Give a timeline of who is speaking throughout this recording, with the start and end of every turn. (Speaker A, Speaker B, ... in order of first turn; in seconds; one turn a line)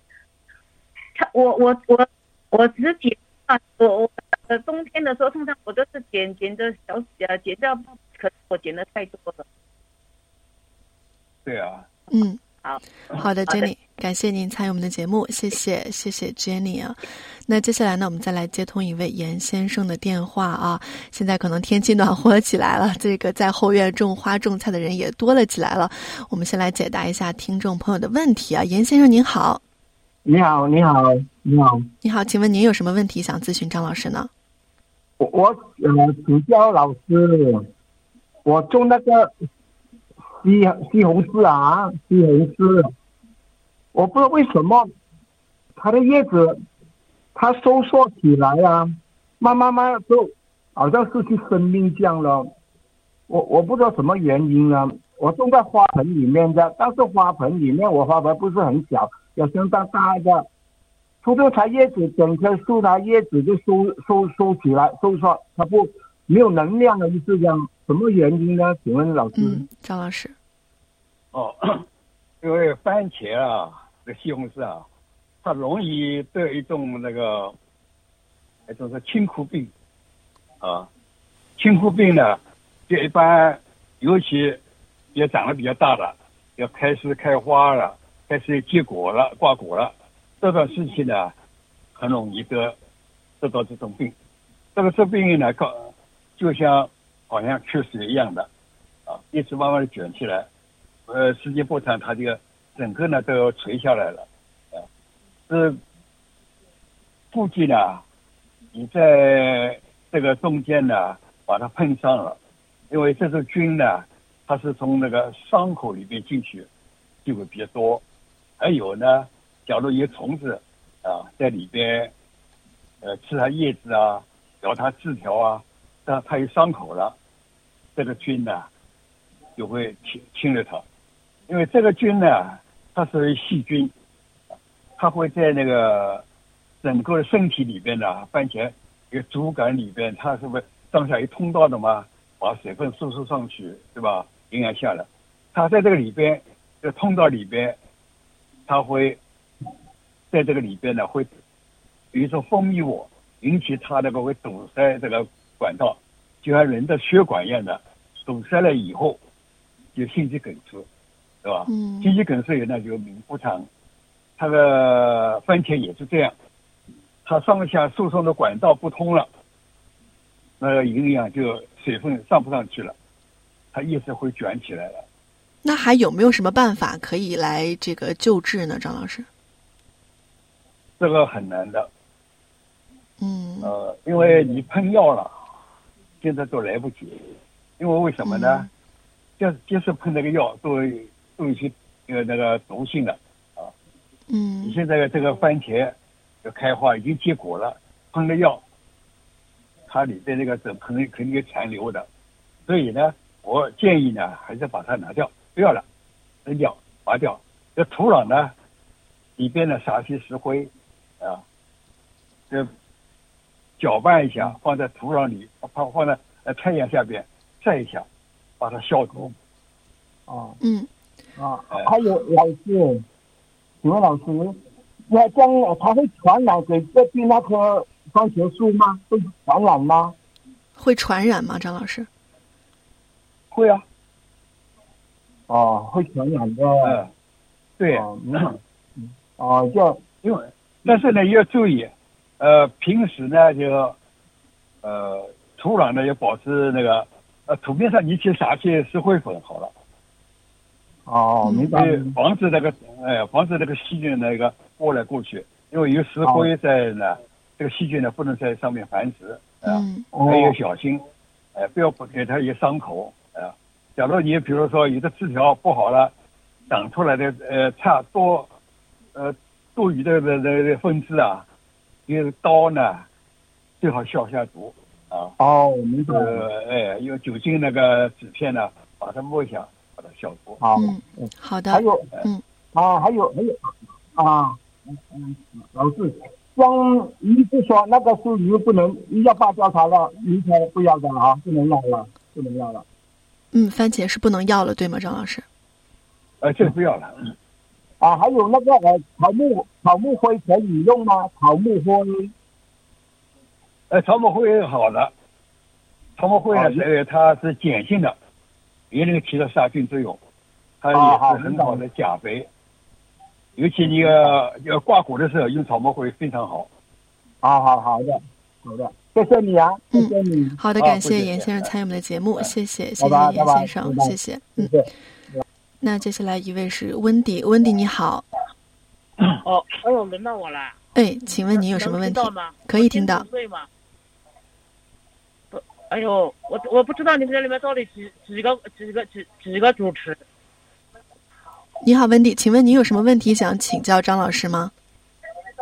Speaker A: 1.1-9.4
Speaker B: 11.4-11.9
Speaker C: 12.1-12.4
Speaker C: 13.1-29.6
Speaker D: 30.2-31.9
Speaker C: 32.0-34.3
Speaker D: 35.2-37.7
Speaker D: 38.4-39.3
Speaker D: 40.4-42.9
Speaker D: 43.9-44.9
Speaker D: 45.8-46.6
Speaker D: 47.3-52.5
Speaker D: 53.3-60.5
Speaker D: 61.2-69.6
Speaker C: 69.3-70.3
Speaker B: 71.3-71.8
Speaker B: 72.4-74.8
Speaker B: 75.4-77.5
Speaker B: 78.7-79.7
Speaker B: 80.6-80.9
Speaker B: 81.6-84.6
Speaker B: 85.1-91.3
Speaker B: 91.9-92.8
Speaker B: 93.4-94.1
Speaker B: 94.7-98.5
Speaker B: 99.1-100.5
Speaker B: 101.1-104.8
Speaker B: 105.5-105.8
Speaker B: 107.3-108.0
Speaker B: 108.7-112.4
Speaker B: 112.9-116.7
Speaker B: 117.2-118.0
Speaker B: 118.6-122.1
Speaker B: 123.0-127.1
Speaker B: 128.0-128.7
Speaker B: 129.6-130.8
Speaker B: 131.5-133.9
Speaker B: 135.0-136.2
Speaker B: 136.8-147.8
Speaker B: 148.7-149.2
Speaker B: 150.3-151.3
Speaker B: 152.1-159.2
Speaker B: 159.9-160.9
Speaker B: 161.4-163.7
Speaker C: 161.7-162.1
Speaker B: 164.4-166.3
Speaker B: 167.2-169.3
Speaker B: 170.6-172.9
Speaker B: 173.7-175.1
Speaker C: 175.6-179.3
Speaker B: 181.0-181.9
Speaker C: 183.2-183.7
Speaker B: 183.6-185.4
Speaker B: 186.2-188.7
Speaker C: 188.2-188.7
Speaker B: 189.4-193.7
Speaker C: 194.3-194.8
Speaker B: 194.6-198.6
Speaker B: 199.9-202.1
Speaker B: 202.7-205.8
Speaker B: 206.4-208.5
Speaker B: 209.4-211.4
Speaker B: 213.8-218.1
Speaker B: 218.6-219.3
Speaker D: 220.3-220.6
Speaker C: 220.6-220.9
Speaker D: 221.3-223.0
Speaker D: 223.8-230.2
Speaker C: 230.8-232.1
Speaker B: 233.5-233.8
Speaker D: 235.5-237.0
Speaker B: 236.8-237.1
Speaker B: 237.8-238.5
Speaker D: 237.9-240.0
Speaker B: 240.2-243.9
Speaker B: 244.8-249.7
Speaker D: 251.1-252.2
Speaker C: 251.4-251.8
Speaker B: 251.7-261.0
Speaker D: 256.2-256.5
Speaker C: 259.6-260.1
Speaker D: 260.1-260.6
Speaker B: 261.5-266.1
Speaker B: 266.7-268.5
Speaker B: 269.1-271.4
Speaker B: 272.1-273.1
Speaker B: 273.8-275.3
Speaker D: 275.4-276.4
Speaker B: 276.1-280.6
Speaker D: 280.6-282.1
Speaker C: 280.8-282.4
Speaker D: 282.7-292.8
Speaker C: 293.5-295.4
Speaker B: 296.4-297.3
Speaker D: 298.0-302.3
Speaker B: 303.9-305.1
Speaker B: 306.2-308.1
Speaker D: 306.5-306.8
Speaker B: 308.9-310.2
Speaker B: 310.8-312.5
Speaker D: 310.9-311.8
Speaker B: 313.6-316.7
Speaker D: 313.8-314.4
Speaker D: 317.4-320.6
Speaker C: 319.9-324.7
Speaker B: 320.8-321.7
Speaker D: 323.0-325.4
Speaker C: 325.8-328.2
Speaker E: 329.4-330.8
Speaker C: 330.9-333.2
Speaker E: 331.6-333.7
Speaker E: 335.5-340.2
Speaker C: 341.8-344.7